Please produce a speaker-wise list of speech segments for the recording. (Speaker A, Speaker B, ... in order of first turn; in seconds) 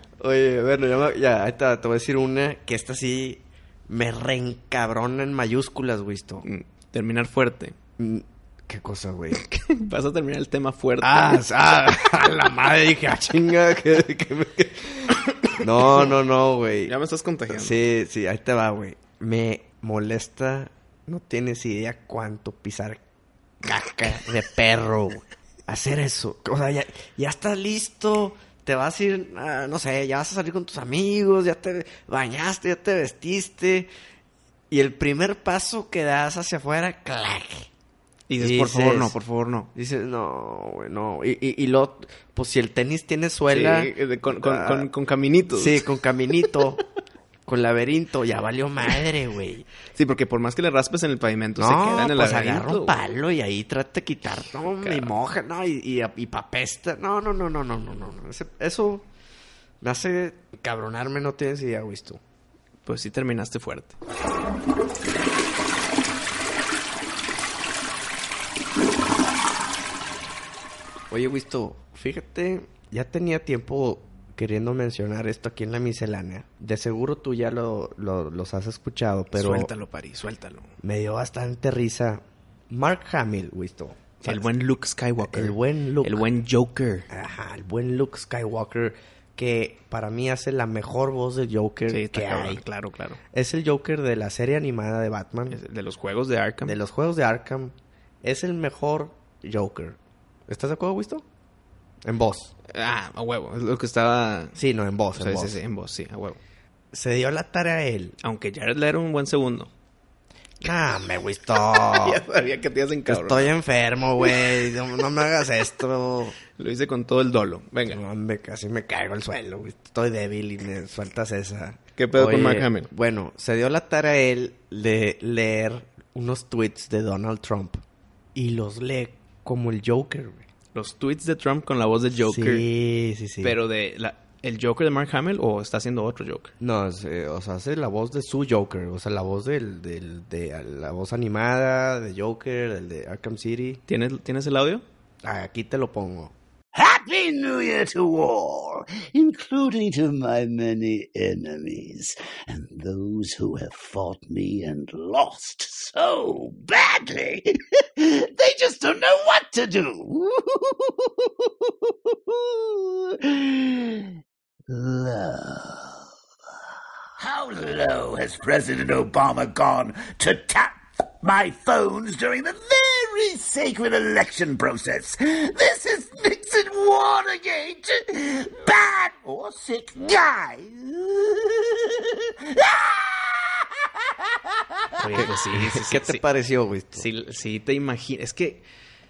Speaker A: 0.2-6.5, 8.0-9.4, 11.0-16.9, 17.5-23.0, 23.6-33.9, 34.7-37.7, 38.4-39.2, 39.7-44.9, 45.5-46.8, 47.5-49.6, 51.6-59.0, 59.8-62.2, 71.1-79.7, 80.8-84.5, 85.2-86.2, 87.1-92.6, 93.3-95.6, 96.6-101.2, 102.0-102.5, 104.5-105.6, 106.9-108.2, 110.6-112.2, 113.1-116.3, 117.9-127.8, 128.3-130.4, 132.2-133.6, 136.6-143.8, 145.2-146.3, 185.1-187.1
Speaker B: 6.4-7.7, 9.3-11.4, 15.4-16.1, 16.9-17.8, 38.3-39.7, 43.5-45.8, 49.9-53.0, 54.8-55.1, 62.9-64.0, 79.3-80.7, 84.2-87.1, 91.9-93.2, 95.5-96.8, 102.7-104.6, 105.1-106.4, 108.2-109.7, 111.5-113.5, 114.2-114.8, 116.5-118.0, 122.0-122.9, 130.7-132.6, 133.4-136.5, 143.9-144.8, 185.0-186.2, 186.9-188.6
Speaker C: 146.7-164.1, 164.7-166.0, 167.2-185.3